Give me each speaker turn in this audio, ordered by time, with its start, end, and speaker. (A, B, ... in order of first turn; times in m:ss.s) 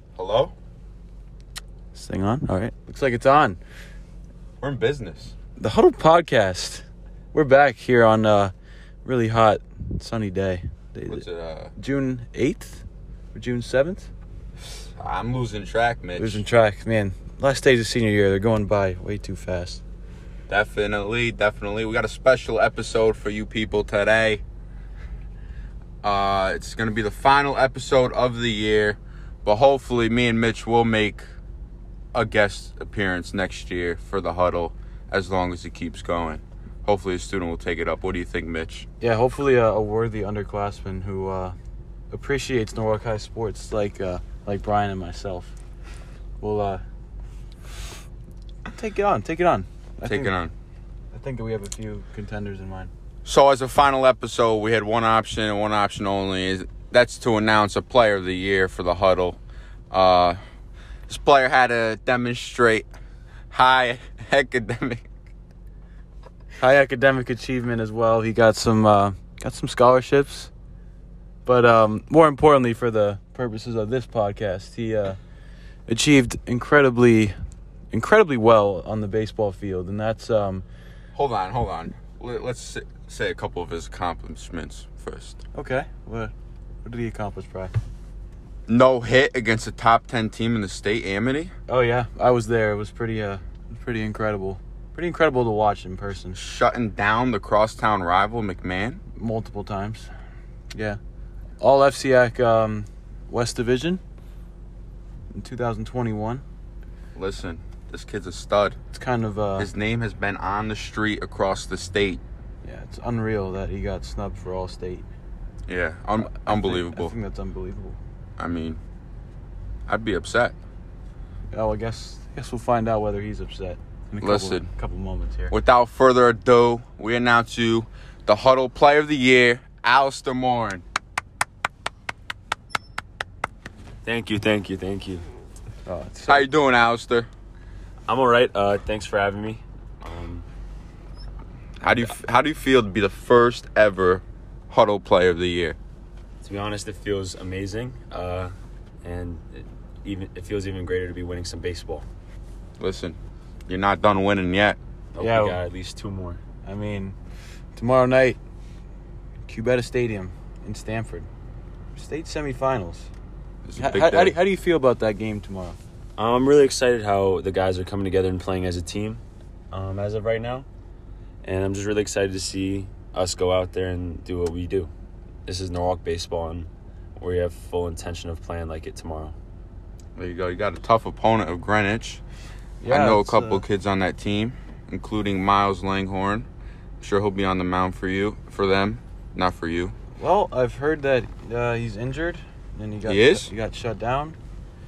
0:00.2-0:00.5 A
0:01.9-0:03.6 B
0:04.6-0:05.3 A
0:05.6-0:08.5 B
0:09.0-0:11.2 B
0:11.1-0:11.7 A
0:11.8-0:14.1 B
0:15.0-0:16.4 A
0:16.2-0:19.8 B
0:20.5-0:24.4 A
0:26.0-0:31.2 A
0:32.1-0:38.9 A
0:39.0-0:41.6 B
0:42.1-0:45.6 B
0:46.4-0:46.8 B
0:48.7-0:50.3 B
0:50.1-0:50.5 A
0:51.1-0:52.9 B
0:53.2-0:59.4 A
0:59.9-1:00.4 A
1:01.1-1:02.9 A
1:03.5-1:05.0 A
1:06.6-1:10.5 B
1:11.4-1:15.2 B
1:15.9-1:17.4 B
1:17.9-1:20.6 B
1:21.1-1:25.4 A
1:25.5-1:26.3 B
1:26.8-1:27.7 B
1:28.7-1:31.5 A
1:31.7-1:36.4 B
1:36.4-1:39.0 A
1:39.2-1:40.1 B
1:40.7-1:41.0 B
1:41.6-1:44.0 B
1:45.3-1:46.4 B
1:47.2-1:48.8 A
1:48.9-1:49.7 B
1:49.6-1:52.2 A
1:52.6-1:55.1 B
1:55.7-1:57.2 A
1:56.2-1:58.0 B
1:58.4-1:58.8 A
1:59.9-2:00.6 A
2:01.5-2:05.5 B
2:04.2-2:04.7 A
2:05.5-2:10.8 A
2:14.0-2:15.3 C
2:15.9-2:16.5 B
2:16.3-2:17.3 A
2:18.1-2:20.5 C
2:21.8-2:25.8 A
2:26.4-2:32.1 C
2:32.8-2:34.8 A
2:35.2-2:36.4 C
2:35.2-2:35.6 B
2:36.6-2:37.2 B
2:37.8-2:38.4 B
2:39.5-2:41.3 B
2:41.9-2:43.1 B
2:43.6-2:44.4 A
2:43.8-2:45.8 B
2:46.2-2:49.2 C
2:49.7-2:50.7 C
2:51.4-2:54.9 C
2:55.5-2:59.4 C
3:00.2-3:02.2 A
3:02.8-3:03.6 B
3:02.9-3:06.5 A
3:07.0-3:10.0 A
3:10.2-3:14.4 B
3:13.1-3:13.5 A